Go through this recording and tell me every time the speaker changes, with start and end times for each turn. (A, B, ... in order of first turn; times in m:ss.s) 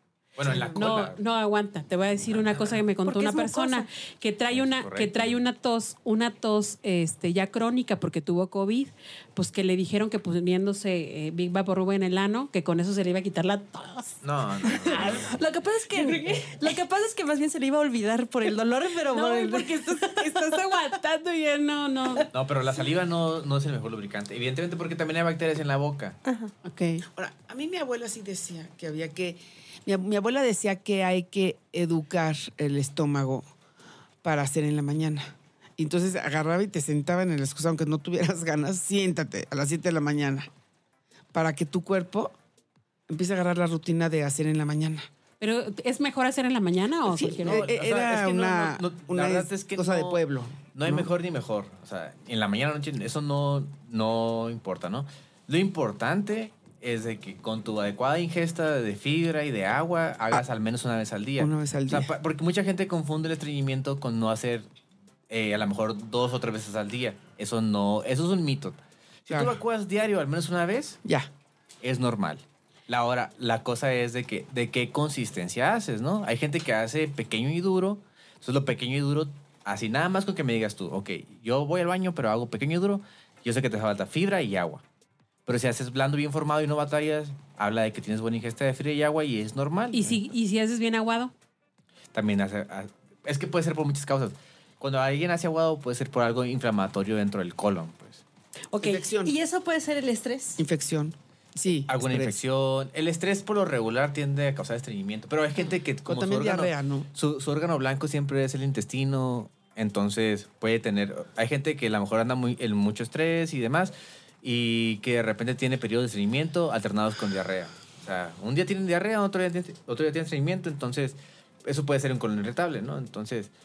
0:00.4-0:01.2 A
0:00.4-0:00.9 B
0:00.7-0:15.3 C
0:02.3-0:02.8 A
0:03.0-0:03.9 D
0:04.5-0:05.4 A
0:14.2-0:15.3 A
0:14.9-0:20.4 D
0:19.1-0:22.3 C
0:22.3-0:26.2 A
0:26.2-0:26.5 D
0:26.6-0:27.0 C
0:27.1-0:33.4 B
0:34.2-0:40.5 B
0:41.3-0:42.3 B
0:43.1-0:45.1 B
0:45.4-0:47.7 C
0:47.1-0:51.1 B
0:47.4-1:04.7 A
1:01.4-1:02.1 B
1:05.3-1:11.0 A
1:09.3-1:09.6 B
1:11.8-1:24.8 A
1:25.4-1:30.3 A
1:29.9-1:31.3 C
1:32.1-1:38.2 A
1:38.7-1:39.1 C
1:38.8-1:39.4 B
1:39.2-1:40.6 D
1:40.6-1:42.4 B
1:41.9-2:03.5 A
1:46.0-1:47.1 B